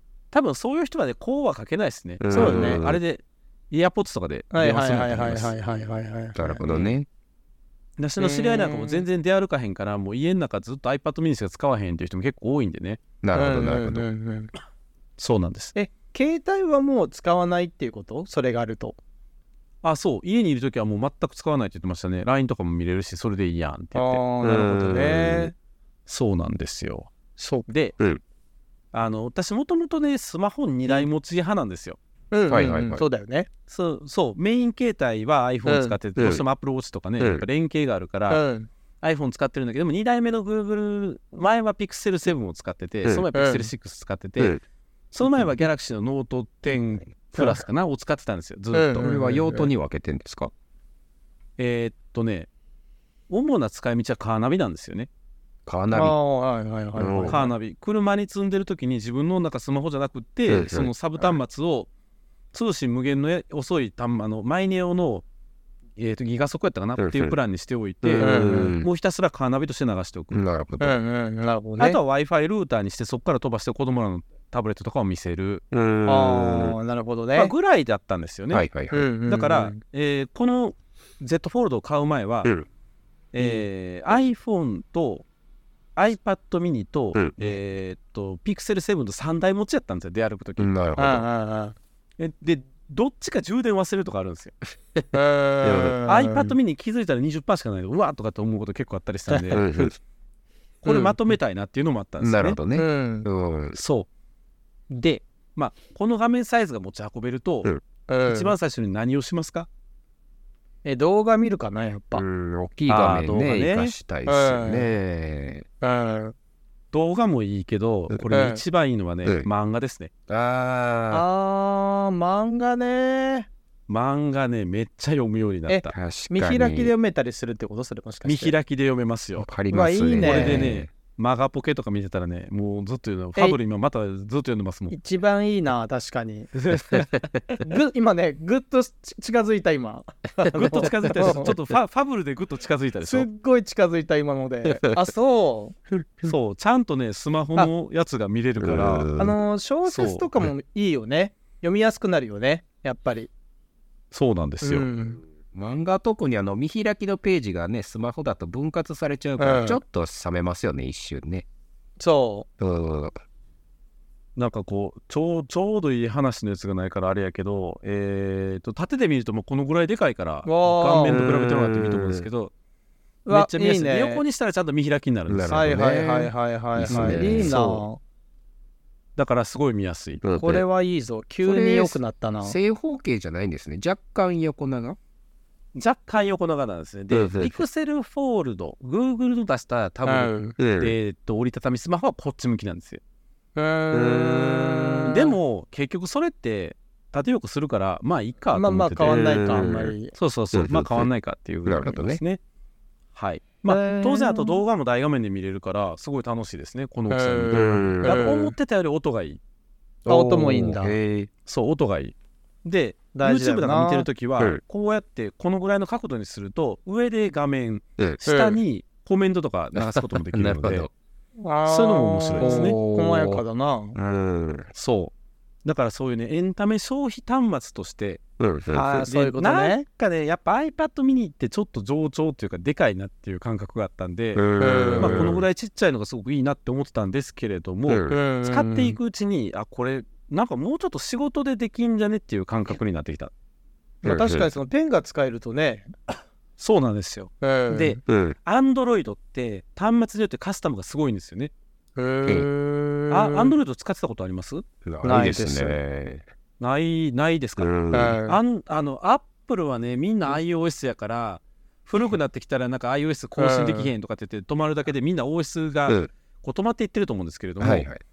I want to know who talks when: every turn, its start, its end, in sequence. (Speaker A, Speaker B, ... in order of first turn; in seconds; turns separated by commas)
Speaker A: 0.3-5.5, Speaker B: 2.2-3.0, Speaker C: 2.3-2.8, Speaker C: 4.5-6.6, Speaker B: 6.3-7.1, Speaker A: 6.7-6.9, Speaker A: 8.0-13.0, Speaker C: 8.2-9.0, Speaker B: 13.2-14.1, Speaker C: 13.3-14.5, Speaker A: 15.2-15.7, Speaker C: 15.8-19.0, Speaker A: 19.8-24.2, Speaker C: 23.9-25.5, Speaker B: 24.4-25.5, Speaker A: 26.1-27.1, Speaker C: 27.4-27.7, Speaker A: 27.7-28.0, Speaker A: 28.9-32.0, Speaker C: 32.3-33.5, Speaker B: 32.5-33.0, Speaker A: 33.7-38.4, Speaker C: 35.6-36.0, Speaker B: 36.2-36.4, Speaker B: 37.2-37.5, Speaker C: 38.3-38.7, Speaker A: 39.0-44.6, Speaker C: 43.3-43.7, Speaker A: 45.1-49.1, Speaker C: 48.7-49.7, Speaker B: 49.0-50.5, Speaker A: 51.6-52.5, Speaker A: 53.3-55.1, Speaker B: 55.7-56.2, Speaker C: 55.9-57.5, Speaker B: 57.0-57.4, Speaker A: 57.2-61.9, Speaker B: 60.5-60.9, Speaker A: 62.5-65.2, Speaker A: 66.0-70.4, Speaker B: 67.0-67.4, Speaker B: 68.0-68.9, Speaker C: 68.1-68.8, Speaker B: 70.3-71.0, Speaker C: 70.8-72.0, Speaker A: 71.8-75.6, Speaker B: 75.7-76.8, Speaker C: 76.0-77.5, Speaker A: 77.3-78.7, Speaker B: 78.5-79.1, Speaker C: 78.9-79.8, Speaker A: 79.2-82.5, Speaker A: 83.3-85.2, Speaker A: 86.0-90.7, Speaker B: 87.1-87.5, Speaker B: 90.6-91.3, Speaker C: 91.0-91.8, Speaker A: 92.2-94.6, Speaker C: 95.1-96.5, Speaker B: 95.6-96.0, Speaker A: 96.0-99.8, Speaker C: 99.3-99.6, Speaker B: 99.5-100.0, Speaker A: 100.8-102.6, Speaker C: 100.8-101.2, Speaker B: 102.2-103.8, Speaker C: 102.7-103.3, Speaker A: 103.7-104.1, Speaker A: 104.9-107.7, Speaker C: 108.1-108.5, Speaker A: 108.2-109.7, Speaker C: 110.8-112.2, Speaker B: 112.1-115.7, Speaker A: 112.9-113.9, Speaker C: 114.2-114.9, Speaker C: 115.8-116.3, Speaker A: 116.9-120.1, Speaker C: 118.3-118.6, Speaker B: 120.3-121.2, Speaker C: 121.1-123.5, Speaker A: 123.9-125.9, Speaker C: 125.7-128.6, Speaker B: 125.9-126.9, Speaker A: 128.2-129.5, Speaker B: 129.4-130.9, Speaker C: 129.7-130.7, Speaker A: 130.2-134.9, Speaker C: 134.9-136.5, Speaker A: 136.6-137.1, Speaker C: 137.6-141.5, Speaker B: 140.4-141.6, Speaker A: 140.5-143.3, Speaker C: 143.0-145.8, Speaker B: 145.9-146.3, Speaker A: 146.2-149.1, Speaker B: 148.6-149.4, Speaker C: 149.2-153.3, Speaker A: 149.9-150.3, Speaker A: 154.1-154.9, Speaker C: 154.6-155.2, Speaker B: 155.5-161.4, Speaker C: 159.4-159.8, Speaker C: 162.0-162.5, Speaker B: 162.6-163.2, Speaker A: 164.4-172.5, Speaker C: 170.4-171.2, Speaker B: 171.1-172.2, Speaker C: 173.2-174.2, Speaker A: 173.3-175.7, Speaker B: 175.3-177.6, Speaker C: 175.5-178.0, Speaker A: 176.9-177.8, Speaker A: 179.2-180.2, Speaker B: 180.2-180.6, Speaker C: 180.4-182.6, Speaker B: 181.4-185.0, Speaker A: 185.8-193.0, Speaker B: 187.1-187.6, Speaker C: 190.1-190.6, Speaker B: 190.6-190.9, Speaker C: 193.6-195.3, Speaker B: 193.9-195.0, Speaker A: 195.1-199.3, Speaker C: 198.5-200.1, Speaker B: 199.0-199.9, Speaker A: 200.1-202.4, Speaker B: 200.5-201.1, Speaker B: 201.7-202.2, Speaker A: 203.1-209.4, Speaker C: 203.7-204.6, Speaker C: 207.1-208.6, Speaker B: 207.5-208.2, Speaker B: 210.1-211.3, Speaker C: 210.1-211.0, Speaker A: 211.5-220.9, Speaker C: 213.1-214.1, Speaker C: 218.2-218.6, Speaker B: 219.7-220.9, Speaker C: 221.4-224.0, Speaker A: 221.7-222.8, Speaker B: 222.4-223.4, Speaker B: 223.9-224.7, Speaker A: 224.8-225.1, Speaker A: 225.6-228.2, Speaker B: 228.4-229.1, Speaker C: 228.7-229.8, Speaker A: 229.1-243.3, Speaker B: 234.3-235.5, Speaker C: 234.6-235.3, Speaker B: 237.9-238.2, Speaker C: 238.1-239.0, Speaker C: 244.0-246.2, Speaker B: 244.0-244.5, Speaker A: 246.6-251.5, Speaker C: 247.4-248.0, Speaker B: 248.1-248.4, Speaker C: 252.0-253.5, Speaker A: 253.1-254.6, Speaker B: 254.8-256.2, Speaker C: 255.0-255.8, Speaker A: 256.6-267.9, Speaker B: 257.6-258.2, Speaker C: 257.9-258.4, Speaker C: 263.4-263.9, Speaker B: 267.6-268.0